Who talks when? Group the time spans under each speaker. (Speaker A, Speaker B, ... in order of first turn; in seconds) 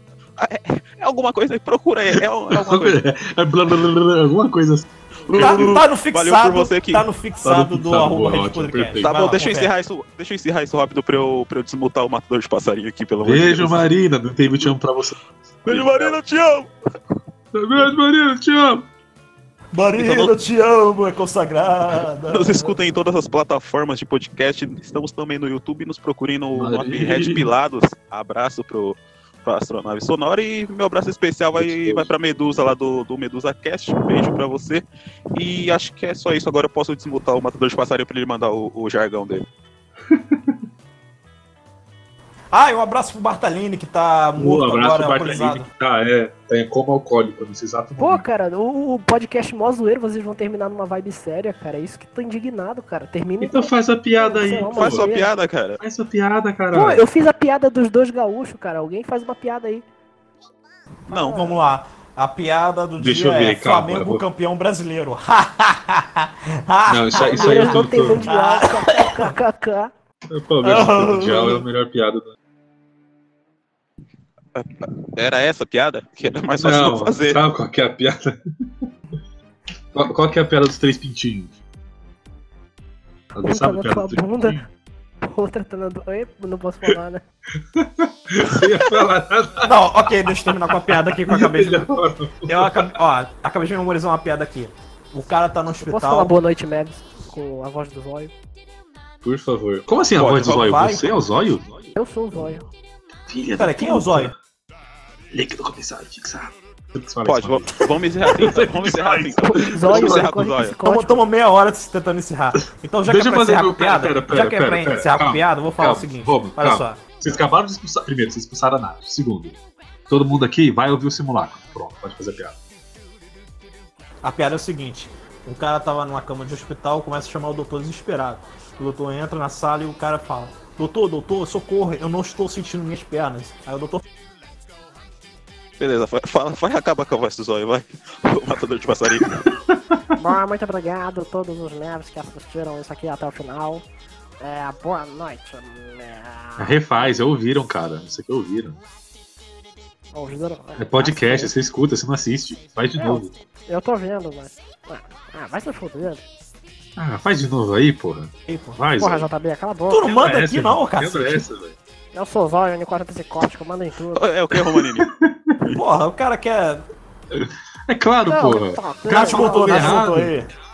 Speaker A: 0.4-3.0, 5.3-7.0, 9.0-13.9, 15.6-16.7, 20.0-20.4, 22.3-39.4, 54.7-55.8, 61.1-61.5, 74.5-77.4, 100.1-100.8, 107.2-110.8, 135.8-139.5, 164.1-165.1
Speaker B: 2.1-5.8, 7.4-9.2, 13.2-16.2, 17.5-18.9, 26.5-27.4, 31.6-32.1, 40.1-40.5, 44.4-48.2, 53.4-55.1, 55.8-57.0, 63.0-64.2, 66.9-68.3, 70.3-72.3, 76.6-78.4, 79.9-81.6, 83.3-84.6, 87.8-92.9, 99.2-101.7, 103.3-104.3, 105.3-110.3, 113.1-119.6, 120.1-122.6, 139.2-139.7, 146.6-148.8, 150.8-153.3, 157.0-159.3, 160.0-161.8, 164.5-165.6, 167.3-170.3
Speaker C: 5.3-9.7, 19.7-22.8, 42.5-45.7, 61.1-69.4, 70.6-71.6, 89.6-91.9, 92.5-96.3, 100.2-101.1, 103.6-104.3, 110.8-117.0, 124.2-134.0, 158.5-158.8, 159.9-161.4, 165.7-166.8, 169.1-170.5
Speaker D: 48.0-55.3, 56.7-59.8, 61.1-61.5, 67.2-69.9, 83.4-84.6, 85.2-87.2, 95.8-98.3, 102.0-102.6, 109.5-111.2, 140.2-143.8, 144.4-146.8, 150.1-151.5, 153.0-156.2, 159.0-160.2, 162.1-164.3, 168.2-170.0